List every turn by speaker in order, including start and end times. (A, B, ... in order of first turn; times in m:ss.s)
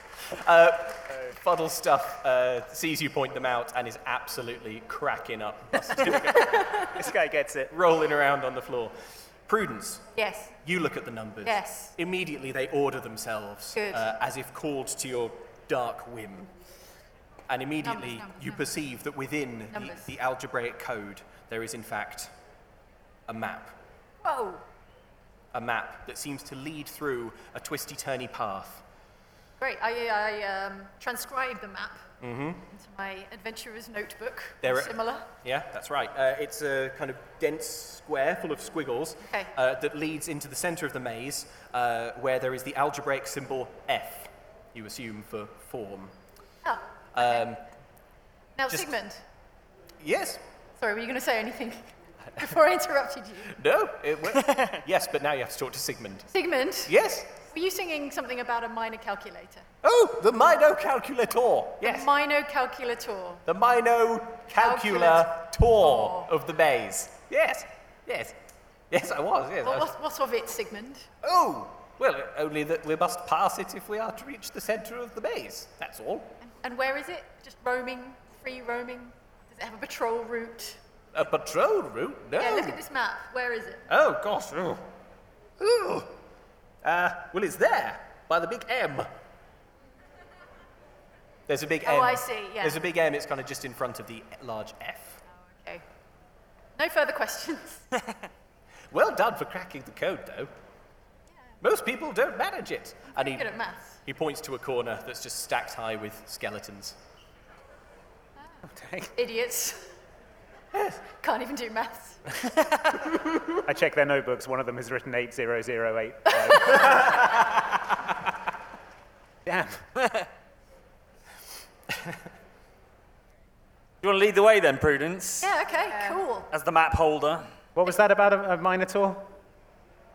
0:00.3-0:06.9 A
0:06.9-0:07.7 B
0:07.7-0:09.0 A
0:09.5-0:10.1 A
0:10.2-0:10.5 C
0:10.6-0:16.5 A
0:11.4-0:11.9 C
0:13.8-0:14.1 C
0:17.5-0:22.3 A
0:17.8-0:18.6 C
0:19.7-0:20.1 C
0:23.3-0:23.8 A
0:24.2-0:24.6 C
0:25.5-0:28.8 A
0:29.6-0:32.0 C
0:32.2-0:32.6 A
0:32.7-0:35.3 C
0:34.6-0:46.1 A
0:39.2-0:39.5 C
0:46.6-0:47.5 C
0:47.1-0:47.6 A
0:48.6-0:49.2 C
0:50.0-0:50.4 A
0:50.8-0:53.6 C
0:53.5-0:56.3 A
0:56.3-0:56.9 C
0:56.8-0:57.4 A
0:57.4-0:59.6 C
0:59.8-1:02.1 A
1:01.8-1:03.4 C
1:03.4-1:08.4 A
1:04.6-1:06.3 C
1:08.9-1:09.9 A
1:09.6-1:11.1 C
1:11.2-1:16.4 A
1:16.4-1:20.8 C
1:21.1-1:22.8 A
1:22.4-1:23.8 C
1:23.9-1:24.8 A
1:25.6-1:26.1 A
1:26.8-1:29.1 A
1:31.5-1:35.2 A
1:31.8-1:32.8 C
1:35.4-1:35.8 C
1:36.8-1:37.9 C
1:38.9-1:40.5 A
1:41.6-1:43.5 A
1:43.1-1:44.0 C
1:44.0-1:47.0 A
1:48.7-1:49.1 B
1:49.2-1:49.9 C
1:50.7-1:51.0 A
1:51.2-1:52.2 C
1:53.6-1:57.3 B
1:59.4-1:59.9 B
2:04.0-2:05.5 D
2:05.4-2:06.5 C
2:06.5-2:07.5 D
2:07.7-2:09.3 B